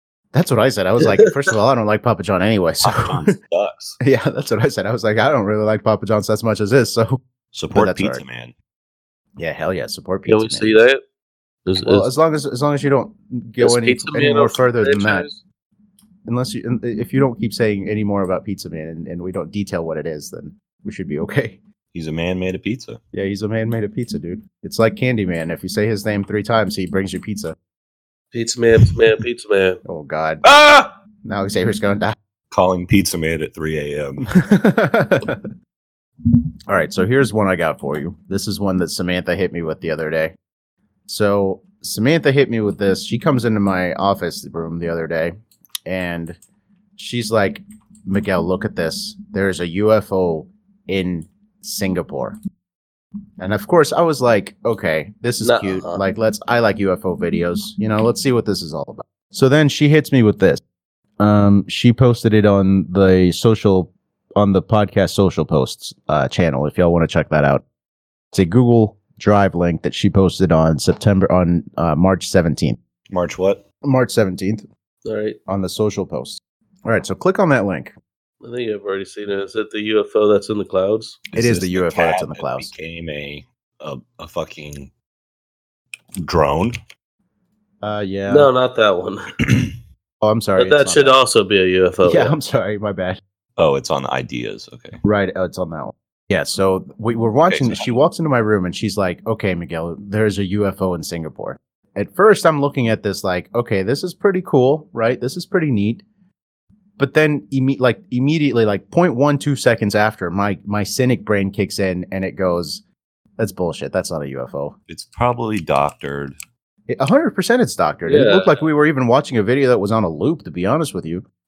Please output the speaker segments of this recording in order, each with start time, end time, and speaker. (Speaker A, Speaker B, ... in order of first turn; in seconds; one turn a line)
Speaker A: 0.3-3.3
Speaker B: 1.0-1.3
Speaker C: 2.8-4.0
Speaker A: 4.0-7.2
Speaker C: 7.5-8.5
Speaker A: 7.7-8.2
Speaker A: 9.4-10.7
Speaker B: 10.3-11.0
Speaker B: 11.7-12.1
Speaker A: 11.8-15.3
Speaker B: 13.6-15.4
Speaker A: 16.3-21.6
Speaker C: 21.9-23.0
Speaker A: 23.1-27.5
Speaker B: 28.3-29.8
Speaker A: 29.8-30.4
Speaker B: 30.5-30.9
Speaker A: 31.2-32.1
Speaker C: 32.5-34.3
Speaker A: 34.3-35.5
Speaker A: 36.7-40.3
Speaker A: 41.1-45.3
Speaker A: 45.9-46.4
Speaker A: 47.0-52.4
Speaker A: 53.4-60.6
Speaker B: 55.4-56.0
Speaker A: 61.2-67.6
Speaker A: 68.3-72.8
Speaker C: 73.1-73.6
Speaker A: 73.8-74.6
Speaker B: 75.0-75.4
Speaker A: 75.5-77.9
Speaker B: 78.4-81.2
Speaker C: 81.3-84.9
Speaker A: 81.3-82.7
Speaker C: 86.2-86.8
Speaker A: 87.8-88.5
Speaker B: 88.3-89.3
Speaker C: 89.4-89.7
Speaker A: 90.2-91.2
Speaker B: 90.6-92.4
Speaker A: 92.0-93.2
Speaker C: 93.6-95.0
Speaker A: 95.0-106.0
Speaker C: 97.5-98.0
Speaker A: 107.0-112.8
Speaker A: 113.4-114.7
Speaker C: 114.9-116.3
Speaker A: 116.9-121.2
Speaker B: 118.1-118.7